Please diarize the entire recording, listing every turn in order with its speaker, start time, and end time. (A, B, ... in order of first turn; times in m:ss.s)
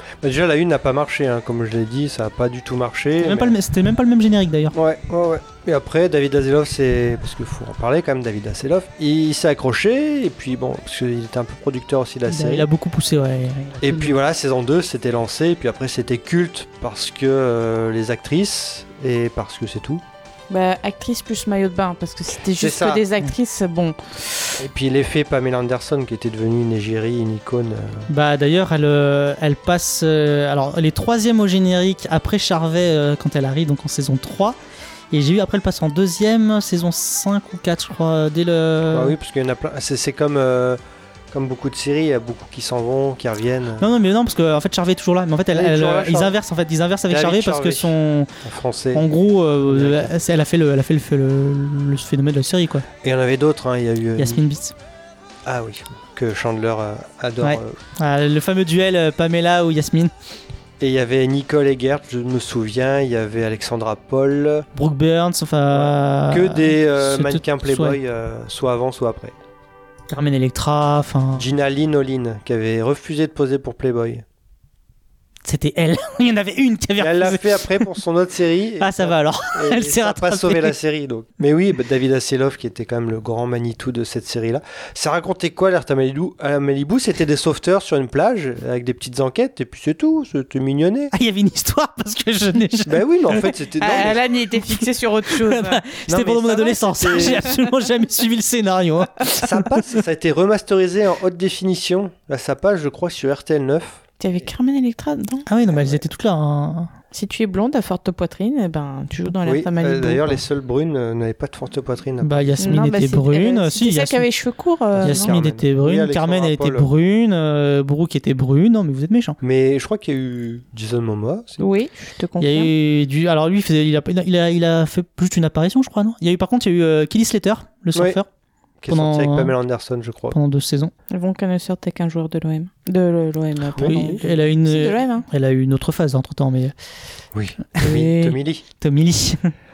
0:00.2-0:03.6 A
0:03.2-0:04.8 B
0:04.7-0:12.7 A
0:12.3-0:14.2 B
0:13.8-0:20.0 A
0:20.5-0:24.5 C
0:22.6-0:23.0 A
0:24.6-0:28.1 A
0:28.1-0:34.6 B
0:35.1-0:39.1 B
0:38.9-0:40.8 A
0:41.3-0:43.9 A
0:43.8-0:48.3 B
0:45.5-0:46.3 A
0:47.1-0:49.0 A
0:48.9-0:52.8 B
0:49.6-0:50.1 A
0:53.0-0:54.4 A
0:54.2-0:54.7 B
0:55.4-0:57.8 A
0:57.4-1:00.1 B
1:00.8-1:04.6 A
1:04.7-1:08.0 B
1:05.7-1:09.4 A
1:10.1-1:11.4 B
1:11.3-1:14.2 A
1:15.4-1:17.9 B
1:17.0-1:31.1 A
1:18.8-1:20.8 B
1:31.1-1:33.6 B
1:32.9-1:34.2 A
1:33.8-1:36.0 C
1:35.4-1:39.7 B
1:36.0-1:37.4 A
1:36.6-1:37.6 C
1:39.4-1:44.0 A
1:44.2-1:45.5 C
1:45.5-1:46.9 B
1:45.7-1:46.0 A
1:47.1-1:50.4 C
1:49.4-1:52.6 A
1:52.2-1:54.3 B
1:52.6-1:55.3 C
1:54.9-1:56.9 A
1:55.0-1:59.4 B
1:59.4-2:01.7 A
2:01.6-2:02.7 C
2:02.4-2:08.3 B
2:08.0-2:08.2 A
2:08.8-2:10.4 A
2:08.9-2:09.5 B
2:10.3-2:10.9 B
2:11.1-2:15.3 C
2:13.7-2:14.2 A
2:13.9-2:16.7 B
2:17.3-2:18.6 A
2:17.8-2:18.3 C
2:18.8-2:19.5 B